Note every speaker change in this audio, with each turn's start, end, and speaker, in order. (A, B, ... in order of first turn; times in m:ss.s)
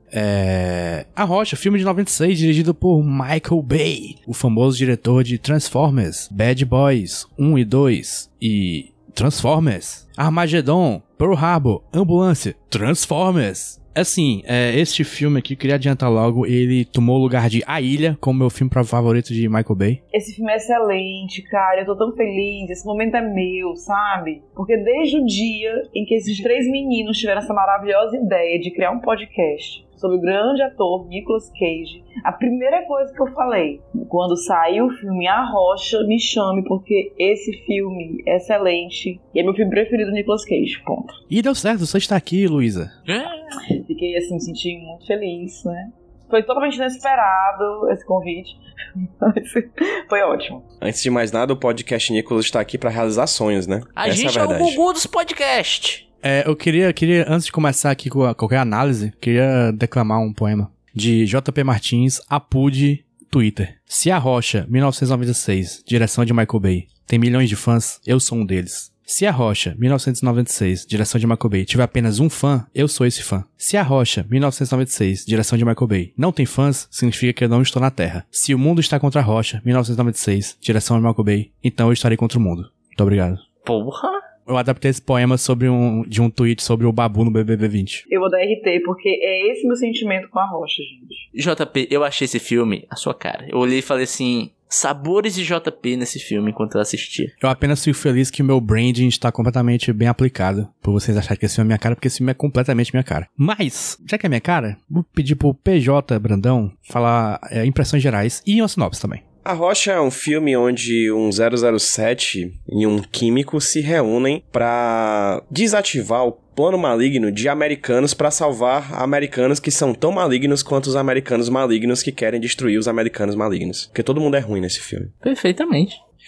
0:00.1-0:20.0 A
0:20.1-0:41.2 B
0:41.3-0:42.9 A
0:43.0-0:43.6 C
0:43.7-0:50.6 B
0:50.8-0:54.8 D
0:54.0-0:56.0 C
0:56.2-1:23.4 A
1:23.6-1:24.2 C
1:24.5-1:28.0 A
1:28.1-1:31.2 B
1:31.3-1:37.3 C
1:37.4-1:49.2 A
1:49.4-2:05.1 D
2:05.2-2:06.0 C